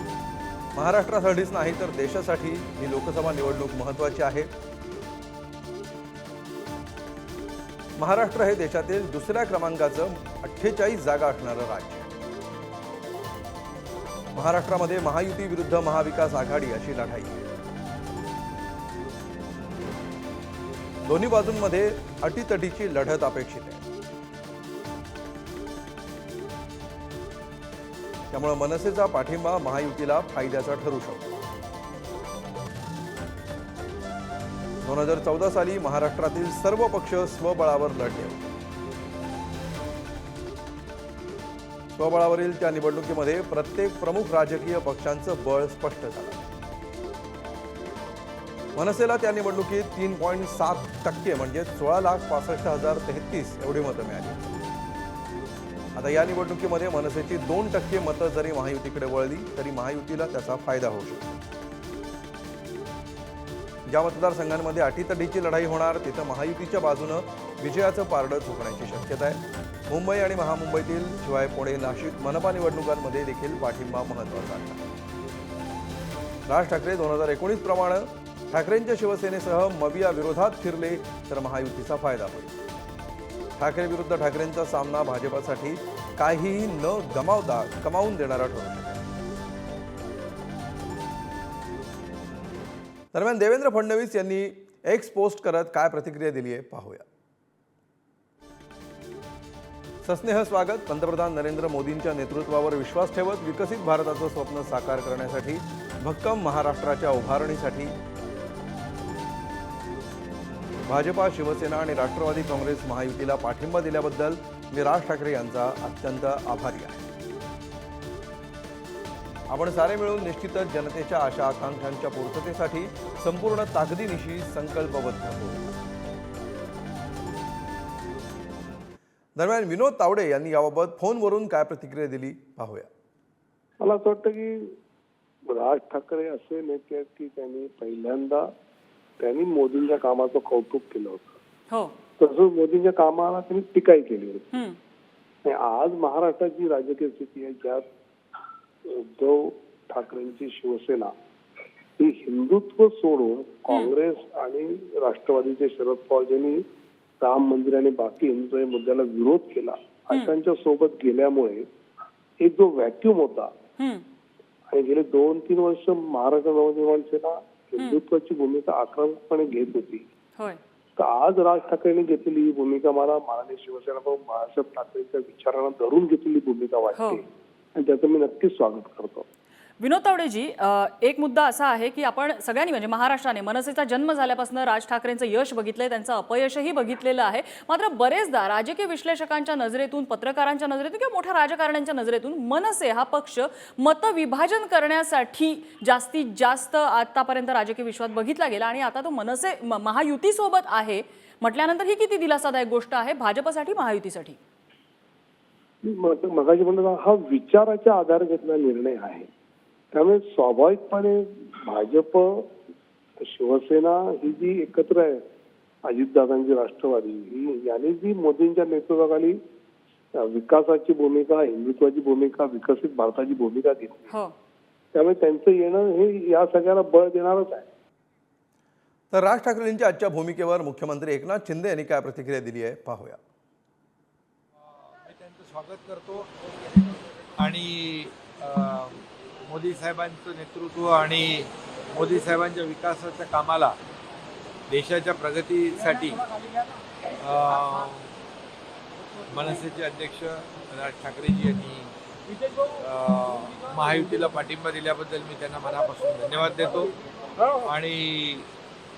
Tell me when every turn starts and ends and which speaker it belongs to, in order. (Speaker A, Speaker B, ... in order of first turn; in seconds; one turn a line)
Speaker A: 0.7-4.5
Speaker A: 8.0-12.1
Speaker A: 14.3-17.5
Speaker A: 21.1-23.8
Speaker A: 28.3-31.3
Speaker A: 34.8-38.6
Speaker A: 41.9-46.4
Speaker A: 48.8-54.5
Speaker A: 56.0-61.4
Speaker A: 63.9-74.8
Speaker A: 76.5-82.5
Speaker A: 83.6-89.0
Speaker A: 93.1-97.0
Speaker A: 100.0-108.0
Speaker A: 110.9-117.0
Speaker A: 119.5-125.8
Speaker A: 129.4-132.9
Speaker B: 133.8-134.8
Speaker B: 135.5-138.5
Speaker B: 139.2-141.4
Speaker B: 142.2-144.5
Speaker B: 145.4-147.8
Speaker B: 148.9-151.1
Speaker B: 152.0-156.6
Speaker B: 157.2-161.7
Speaker B: 162.4-163.5
Speaker C: 163.8-164.1
Speaker B: 164.7-170.1
Speaker B: 171.0-177.2
Speaker C: 176.9-177.2
Speaker B: 177.8-179.3
Speaker C: 179.8-204.4
Speaker B: 205.8-209.3
Speaker B: 209.9-212.5
Speaker B: 213.2-215.2
Speaker B: 215.8-219.4
Speaker B: 220.2-224.1
Speaker B: 224.9-227.7
Speaker A: 229.1-233.2
Speaker D: 234.6-236.3
Speaker D: 237.4-243.8
Speaker D: 244.7-246.2
Speaker D: 247.2-248.1
Speaker D: 249.3-251.9
Speaker D: 252.8-256.9
Speaker D: 257.6-258.5